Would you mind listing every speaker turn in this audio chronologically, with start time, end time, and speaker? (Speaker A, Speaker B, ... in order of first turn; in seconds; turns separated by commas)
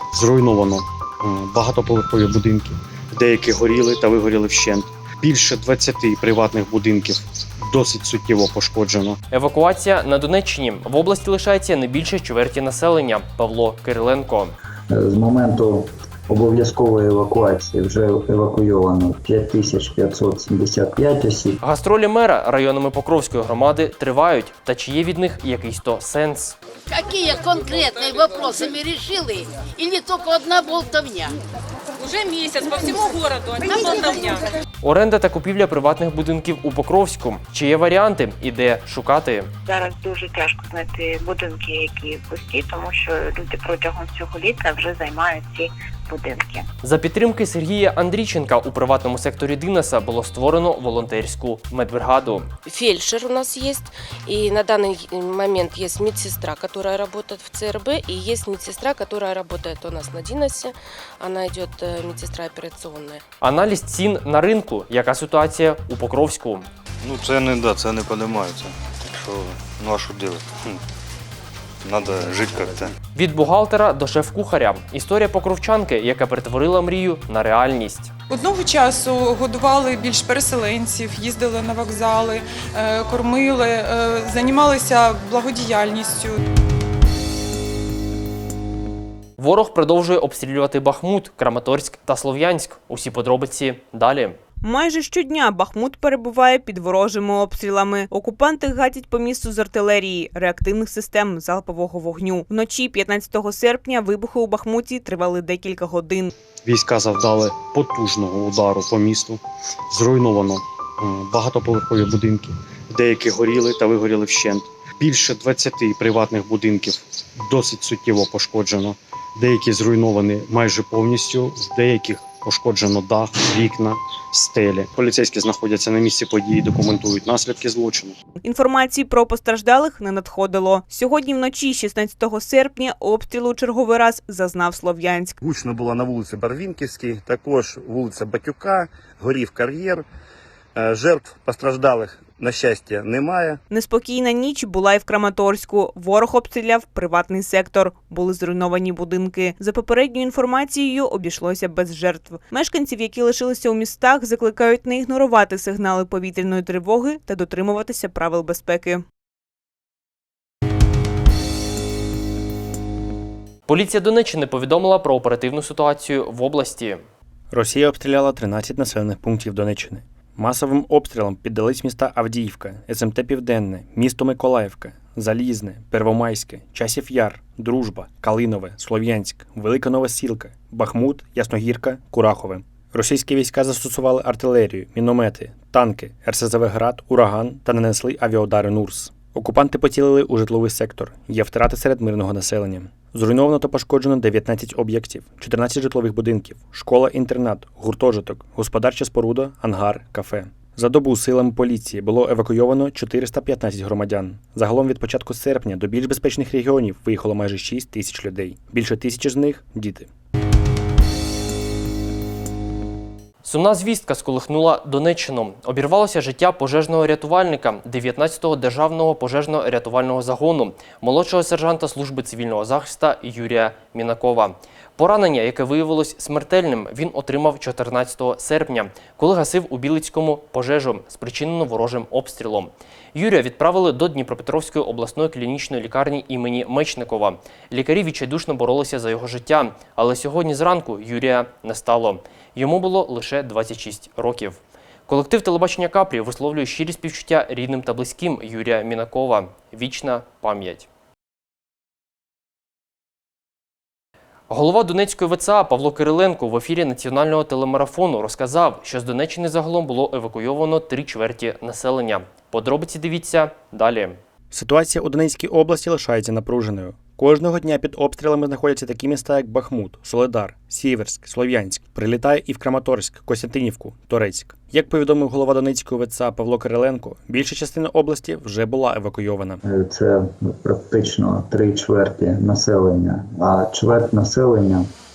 Speaker A: 0.1-9.2, Speaker B: 9.3-14.6, Speaker C: 14.9-21.6, Speaker B: 21.6-26.6, Speaker D: 26.9-31.3, Speaker E: 32.1-34.4, Speaker B: 34.8-39.5, Speaker F: 39.7-46.7, Speaker B: 46.8-52.5, Speaker G: 52.7-63.2, Speaker B: 63.4-66.7, Speaker H: 67.0-70.8, Speaker H: 71.8-72.9, Speaker B: 73.1-78.1, Speaker I: 78.3-86.4, Speaker B: 89.4-94.4, Speaker J: 94.6-106.3, Speaker A: 106.7-128.2, Speaker J: 128.4-135.4, Speaker K: 135.4-140.1, Speaker K: 140.8-143.6, Speaker J: 143.7-159.0, Speaker B: 163.7-167.0, Speaker L: 167.5-210.1, Speaker B: 213.4-250.9, Speaker B: 254.5-264.2, Speaker L: 264.5-279.6, Speaker C: 279.6-284.9